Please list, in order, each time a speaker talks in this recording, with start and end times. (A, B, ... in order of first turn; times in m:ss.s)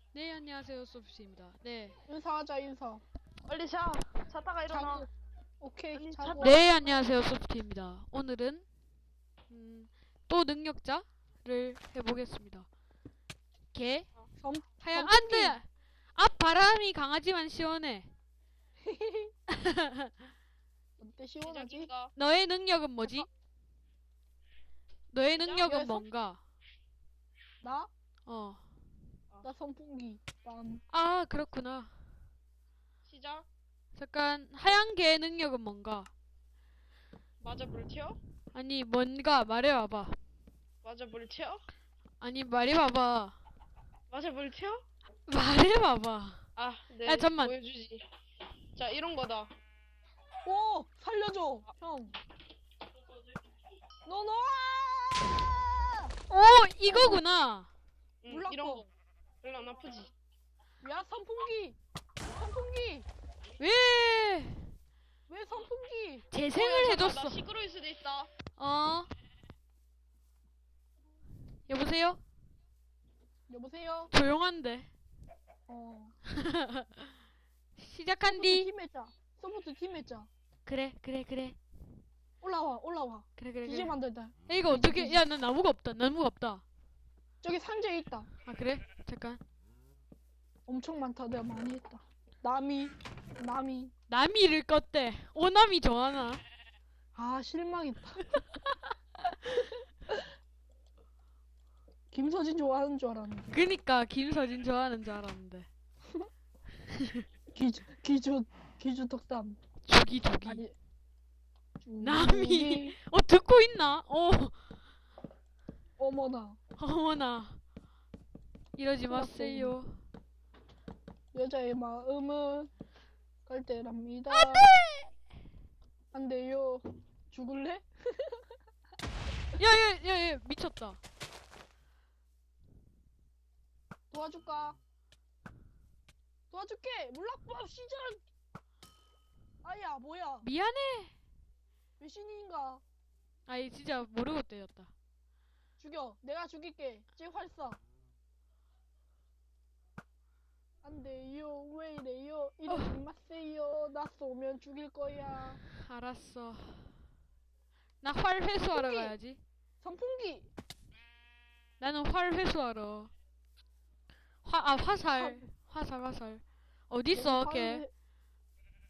0:00.1-0:02.0 A
0:02.1-0:03.0 B
0:03.5-0:05.1 C
0:04.7-0:05.1 B
0:05.6-0:06.6 B
0:05.9-0:07.0 C
0:06.4-0:08.6 A
0:09.5-0:12.7 A
0:13.7-0:14.1 A
0:14.4-0:15.6 B
0:14.8-0:18.1 A
0:18.8-0:19.3 B
0:19.5-0:20.1 A
0:21.0-0:21.9 B
0:21.4-0:22.1 C
0:22.2-0:23.3 A
0:25.1-0:26.4 A
0:25.4-0:25.7 C
0:25.6-0:26.0 B
0:27.6-0:27.9 B
0:28.3-0:28.6 A
0:29.4-0:30.8 B
0:30.9-0:31.9 A
0:33.0-0:33.4 C
0:33.9-0:36.1 A
0:37.4-0:38.2 C
0:38.5-0:40.2 A
0:40.8-0:41.6 C
0:42.2-0:43.4 A
0:44.1-0:44.8 C
0:45.3-0:46.4 A
0:46.6-0:48.0 C
0:47.0-0:47.5 A
0:48.8-0:49.5 C
0:50.4-0:52.2 B
0:54.0-0:56.1 B
0:56.3-0:57.7 A
0:56.9-0:57.2 B
0:58.2-0:58.9 C
0:58.3-0:58.8 B
0:59.4-1:00.1 C
1:00.8-1:01.8 B
1:02.3-1:03.1 B
1:03.6-1:04.7 A
1:05.3-1:06.3 B
1:06.3-1:07.4 A
1:06.5-1:08.3 C
1:08.6-1:09.1 A
1:11.7-1:12.2 A
1:13.5-1:14.1 B
1:14.1-1:14.9 A
1:15.7-1:16.2 B
1:16.4-1:17.1 A
1:17.8-1:18.7 A
1:18.2-1:20.3 B
1:20.6-1:21.6 A
1:22.4-1:25.2 B
1:23.4-1:23.9 A
1:24.5-1:26.6 A
1:27.4-1:28.3 B
1:28.4-1:29.4 A
1:30.7-1:33.9 B
1:34.1-1:36.4 A
1:37.1-1:38.4 B
1:39.7-1:40.2 B
1:42.1-1:43.6 B
1:43.5-1:45.7 A
1:46.9-1:47.2 A
1:47.5-1:49.6 B
1:49.8-1:50.6 A
1:50.4-1:50.7 B
1:51.8-1:53.0 B
1:52.0-1:54.6 A
1:56.0-1:56.6 B
1:56.8-1:57.6 A
1:58.8-2:00.0 A
1:59.1-1:59.8 B
2:01.3-2:02.7 B
2:03.4-2:04.7 B
2:04.3-2:05.1 A
2:06.1-2:08.5 B
2:09.6-2:11.0 A
2:14.1-2:14.8 B
2:16.5-2:18.2 B
2:19.6-2:20.5 B
2:20.4-2:21.1 A
2:22.0-2:22.8 B
2:23.5-2:24.9 A
2:25.8-2:27.8 B
2:30.8-2:35.6 B
2:32.7-2:33.0 A
2:35.7-2:37.0 A
2:38.0-2:39.4 A
2:38.7-2:39.2 B
2:39.8-2:40.5 B
2:41.8-2:43.1 A
2:44.4-2:47.8 A
2:45.1-2:45.4 B
2:47.1-2:47.9 B